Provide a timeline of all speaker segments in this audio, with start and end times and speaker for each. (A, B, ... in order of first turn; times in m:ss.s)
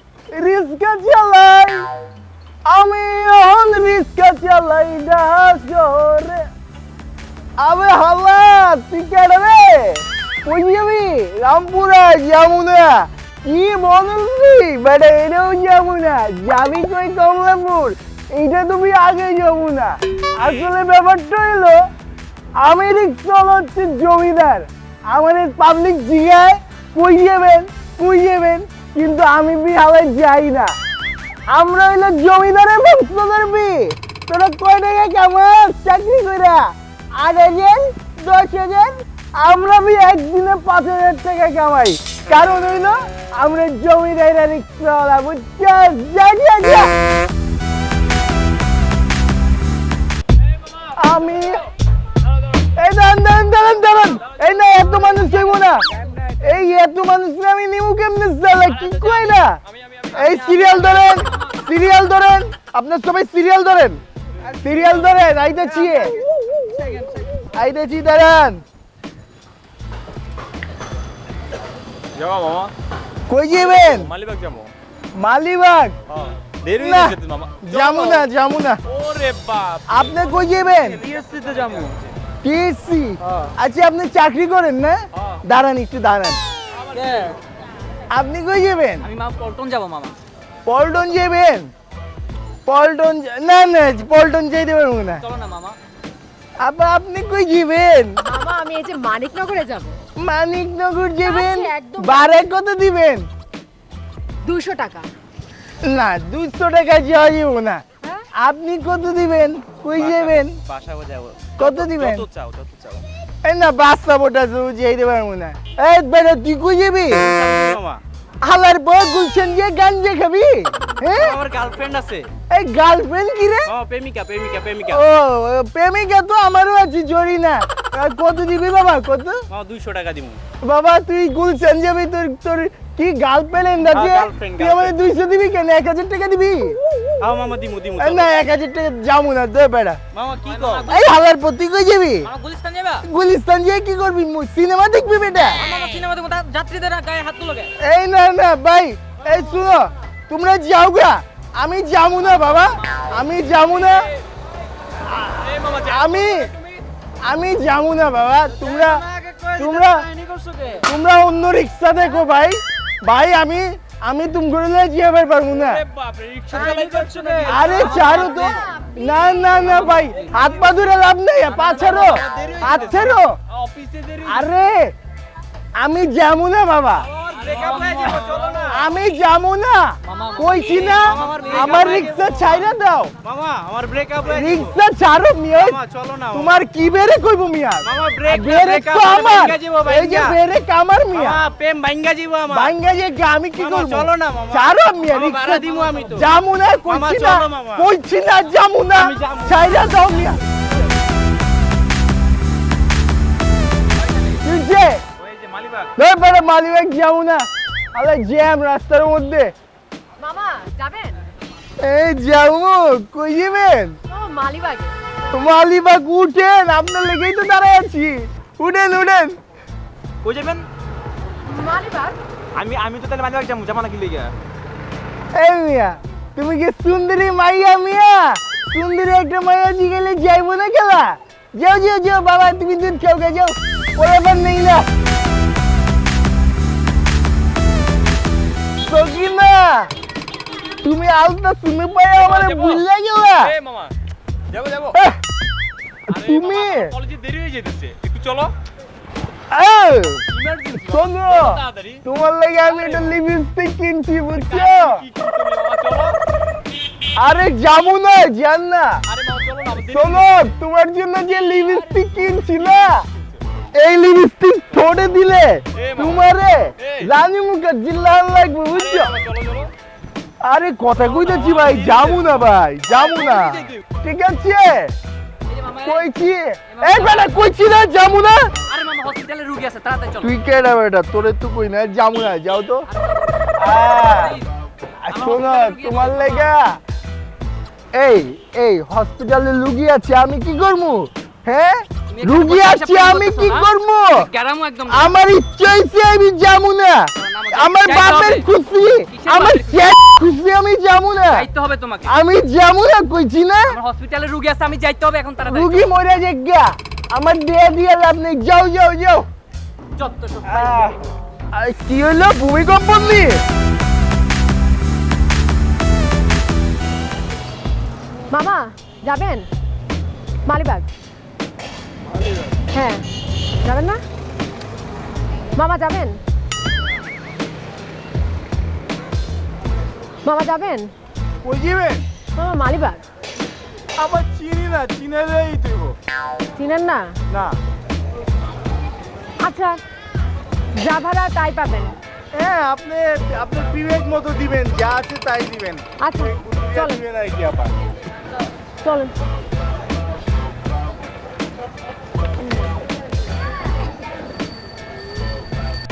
0:00.3-0:01.9 A
0:02.7-0:06.4 A
0:07.6-0:21.8 A
0:22.6-0:30.8 A
0:31.5-0:46.9 A
0:51.0-0:51.6 A
0:52.8-0:55.9 A
0:56.4-1:04.0 A
1:04.6-1:06.2 A
1:06.7-1:07.2 B
1:07.5-1:08.6 A
1:12.1-1:12.7 B
1:13.3-1:14.1 A
1:13.5-1:14.7 B
1:15.2-1:15.9 A
1:16.1-1:18.3 B
1:16.7-1:18.8 A
1:18.9-1:19.9 B
1:19.9-1:21.0 A
1:20.9-1:22.1 B
1:22.4-1:26.4 A
1:23.2-1:23.5 B
1:26.9-1:27.4 C
1:28.1-1:29.1 A
1:29.0-1:30.2 C
1:30.7-1:31.7 A
1:32.7-1:35.2 A
1:35.2-1:35.8 C
1:36.6-1:38.2 A
1:38.2-1:40.0 D
1:40.2-1:43.2 A
1:41.2-1:42.4 D
1:44.4-1:45.1 D
1:45.8-1:47.8 A
1:48.0-1:48.3 D
1:48.4-1:50.6 A
1:49.9-1:53.0 B
1:51.6-1:52.3 A
1:53.4-1:57.2 A
1:57.1-1:58.0 B
1:58.4-2:01.4 A
2:01.1-2:02.3 B
2:02.5-2:03.7 A
2:03.7-2:05.0 B
2:04.9-2:09.4 A
2:09.5-2:10.4 B
2:10.6-2:16.8 A
2:13.9-2:15.0 B
2:17.2-2:18.3 B
2:18.0-2:20.0 A
2:20.1-2:20.9 B
2:20.5-2:21.1 C
2:20.8-2:22.3 A
2:22.2-2:23.0 C
2:23.0-2:25.6 A
2:25.6-2:27.7 C
2:27.8-2:34.1 A
2:35.0-2:36.5 A
2:37.2-2:39.0 A
2:38.6-2:40.8 B
2:39.6-2:40.1 A
2:40.8-2:45.8 A
2:45.7-2:48.7 B
2:47.0-2:47.4 C
2:47.4-2:53.4 A
2:48.2-2:50.0 D
2:51.5-2:54.4 B
2:54.2-2:54.9 A
2:55.8-2:57.1 A
2:57.2-2:58.8 B
2:57.5-2:58.3 C
2:58.7-3:03.1 A
3:00.1-3:01.7 C
3:00.7-3:02.6 B
3:03.2-3:04.7 B
3:04.2-3:05.8 A
3:05.6-3:06.6 B
3:06.3-3:11.4 A
3:07.8-3:10.4 B
3:11.1-3:12.8 B
3:12.5-3:20.4 A
3:13.6-3:16.3 B
3:16.9-3:17.9 B
3:19.0-3:19.9 B
3:24.3-3:25.0 A
3:25.4-3:25.9 B
3:26.0-3:29.5 A
3:30.2-3:31.2 D
3:31.8-3:34.0 A
3:34.1-3:35.0 D
3:35.3-3:39.4 A
3:40.2-3:40.7 B
3:41.5-3:42.2 D
3:42.6-3:44.3 B
3:45.3-3:54.9 A
3:58.8-3:59.9 A
4:00.8-4:03.6 A
4:03.6-4:03.9 B
4:04.9-4:05.2 A
4:06.1-4:07.0 A
4:06.2-4:08.5 B
4:09.5-4:15.0 A
4:10.3-4:12.0 B
4:14.5-4:16.2 B
4:15.4-4:15.8 C
4:17.2-4:19.0 A
4:19.1-4:20.4 B
4:19.8-4:23.1 A
4:23.8-4:29.1 A
4:25.8-4:26.2 B
4:26.8-4:27.1 B
4:28.9-4:29.7 B
4:30.4-4:34.9 A
4:31.1-4:32.4 B
4:33.0-4:33.8 B
4:35.5-4:36.1 C
4:35.8-4:38.5 A
4:36.7-4:37.4 C
4:38.7-4:40.3 C
4:40.2-4:42.9 A
4:42.9-4:44.4 C
4:43.6-4:44.4 A
4:45.0-4:46.8 A
4:45.1-4:46.5 C
4:47.9-4:54.3 A
4:52.1-4:55.2 C
4:54.9-5:01.5 A
4:57.2-4:58.5 C
4:59.1-4:59.9 C
5:01.3-5:02.1 C
5:02.1-5:03.8 A
5:03.7-5:05.9 C
5:05.4-5:09.3 A
5:10.0-5:10.9 C
5:10.4-5:11.0 A
5:11.5-5:13.4 A
5:18.3-5:19.5 D
5:20.4-5:20.9 D
5:22.7-5:23.0 D
5:23.6-5:24.0 D
5:25.5-5:26.2 D
5:30.2-5:30.9 D
5:31.4-5:32.0 A
5:32.4-5:33.0 D
5:34.0-5:35.9 A
5:36.6-5:37.2 D
5:37.3-5:37.6 A
5:39.4-5:39.8 D
5:40.8-5:42.0 D
5:42.4-5:47.7 A
5:46.0-5:47.0 D
5:48.8-5:49.1 D
5:52.4-5:52.8 D